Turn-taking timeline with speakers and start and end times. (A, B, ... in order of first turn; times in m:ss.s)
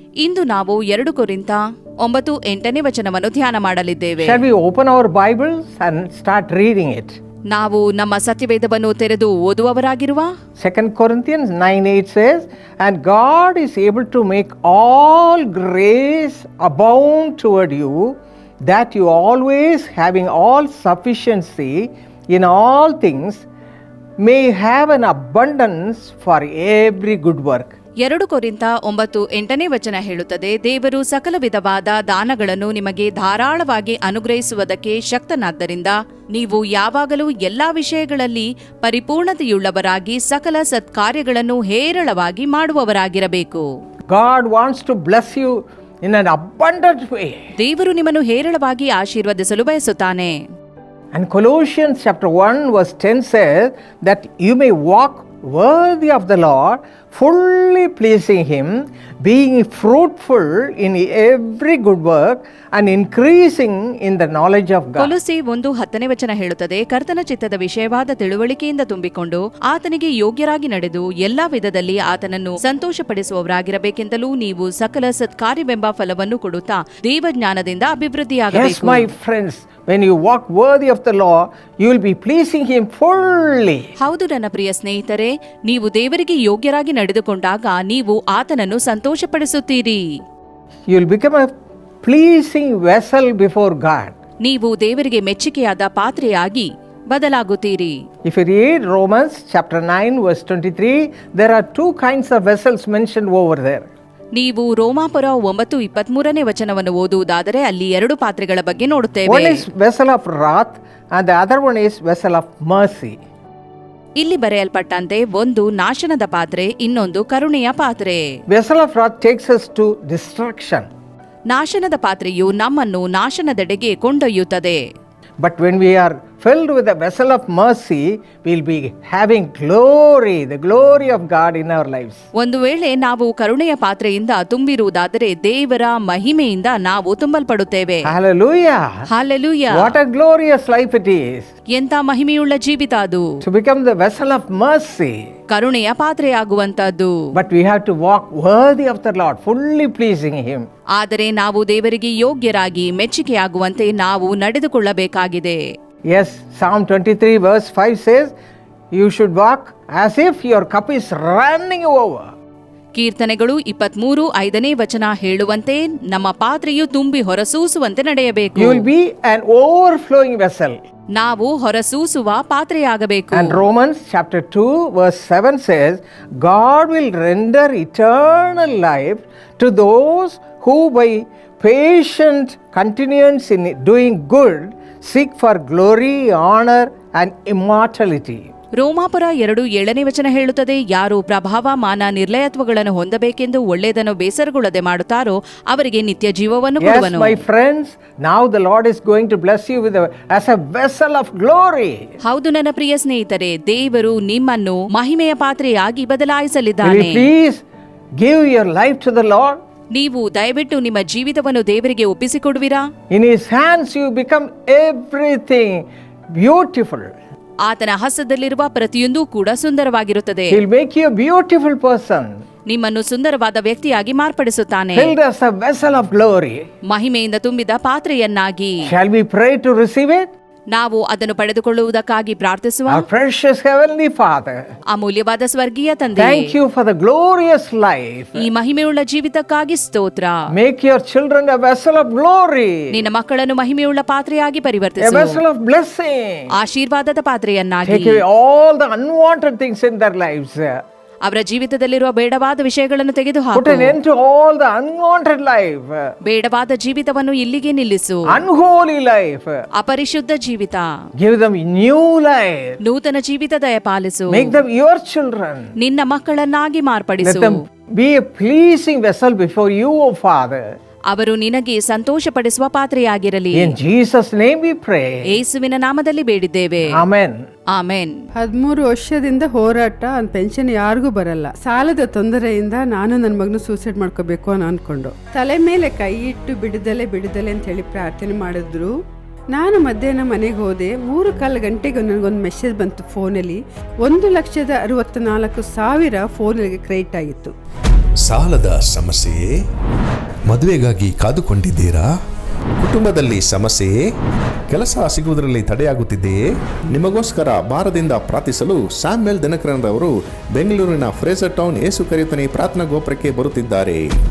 0:00.2-0:04.4 A
0:04.2-0:07.2 B
0:07.5-0:10.3 A
0:10.6-0:18.1 B
0:18.7-0:23.4 B
0:24.2-0:27.7 B
0:28.0-0:43.6 A
0:44.1-0:47.4 B
0:47.6-0:50.4 A
0:51.1-1:05.1 B
1:05.0-1:19.1 A
1:18.5-1:23.9 B
1:24.0-1:30.0 A
1:30.9-1:31.5 B
1:32.0-1:34.1 B
1:34.4-1:38.0 A
1:38.2-1:43.9 B
1:44.4-1:49.6 A
1:49.3-1:53.2 B
1:54.2-1:58.2 A
1:58.5-2:00.9 B
2:01.5-2:04.8 A
2:05.4-2:12.2 B
2:12.4-2:18.1 A
2:18.0-2:19.0 B
2:19.1-2:19.9 A
2:19.7-2:21.5 B
2:21.7-2:23.2 A
2:23.4-2:25.2 B
2:25.5-2:27.2 A
2:27.3-2:30.7 B
2:31.0-2:35.6 A
2:36.1-2:38.3 B
2:38.9-2:42.3 B
2:43.0-2:48.8 A
2:48.6-2:50.8 B
2:51.1-2:53.6 A
2:53.3-3:08.5 B
3:08.8-3:17.4 A
3:16.8-3:22.0 B
3:22.2-3:27.3 A
3:26.8-3:27.6 B
3:28.2-3:29.6 B
3:29.9-3:32.8 A
3:33.1-3:35.8 B
3:36.4-3:37.1 B
3:37.6-3:40.6 A
3:40.5-3:42.4 B
3:42.7-3:45.1 A
3:44.9-3:46.6 B
3:46.9-3:48.8 A
3:48.8-3:50.2 B
3:50.7-3:53.0 A
3:52.9-3:54.6 B
3:54.9-3:56.5 A
3:56.2-3:58.4 B
3:58.4-4:00.4 A
4:00.5-4:02.8 B
4:02.9-4:05.4 A
4:05.0-4:06.5 B
4:06.6-4:08.2 A
4:07.8-4:10.7 B
4:11.2-4:14.0 A
4:13.5-4:16.1 B
4:16.2-4:18.2 A
4:18.3-4:19.6 B
4:19.8-4:20.9 A
4:21.2-4:22.7 B
4:22.8-4:24.6 A
4:24.3-4:25.7 B
4:25.8-4:27.5 A
4:27.2-4:30.6 B
4:31.1-4:33.7 A
4:33.6-4:35.2 B
4:35.3-4:36.9 A
4:36.9-4:37.4 B
4:37.7-4:38.1 A
4:38.4-4:48.9 C
4:49.5-4:57.5 C
4:58.2-4:59.5 D
5:00.5-5:02.1 D
5:02.8-5:04.0 D
5:04.7-5:14.0 D